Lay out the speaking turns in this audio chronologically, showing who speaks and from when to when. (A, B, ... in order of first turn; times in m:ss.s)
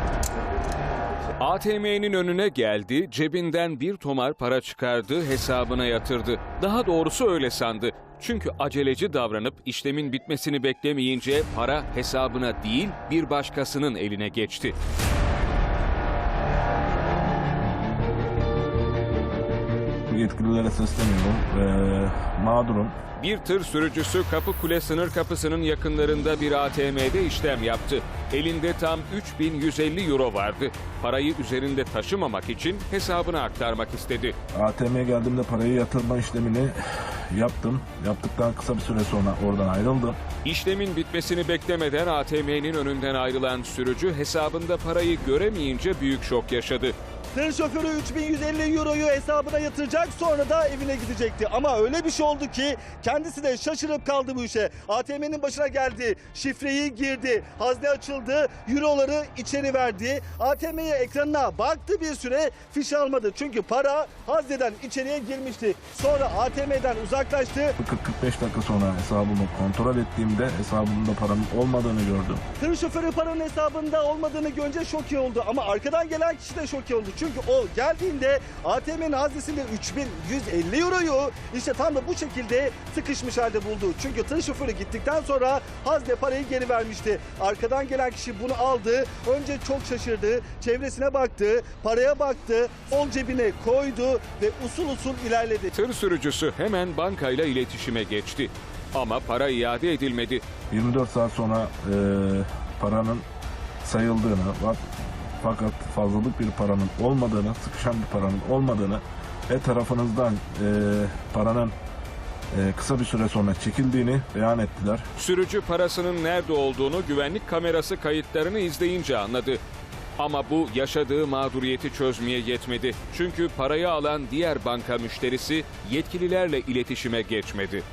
0:01.4-0:14.8 A
0:20.1-0:23.0 B
0:23.2-0:34.3 A
0:34.5-0:40.2 B
0:40.4-0:46.9 A
0:47.3-1:07.7 C
1:07.8-1:12.4 B
1:12.6-1:35.7 C
1:35.7-1:40.4 A
1:40.7-1:43.2 B
1:43.8-1:44.8 B
1:45.4-1:51.7 B
1:52.5-1:55.0 B
1:55.2-1:59.6 A
2:00.2-2:07.8 A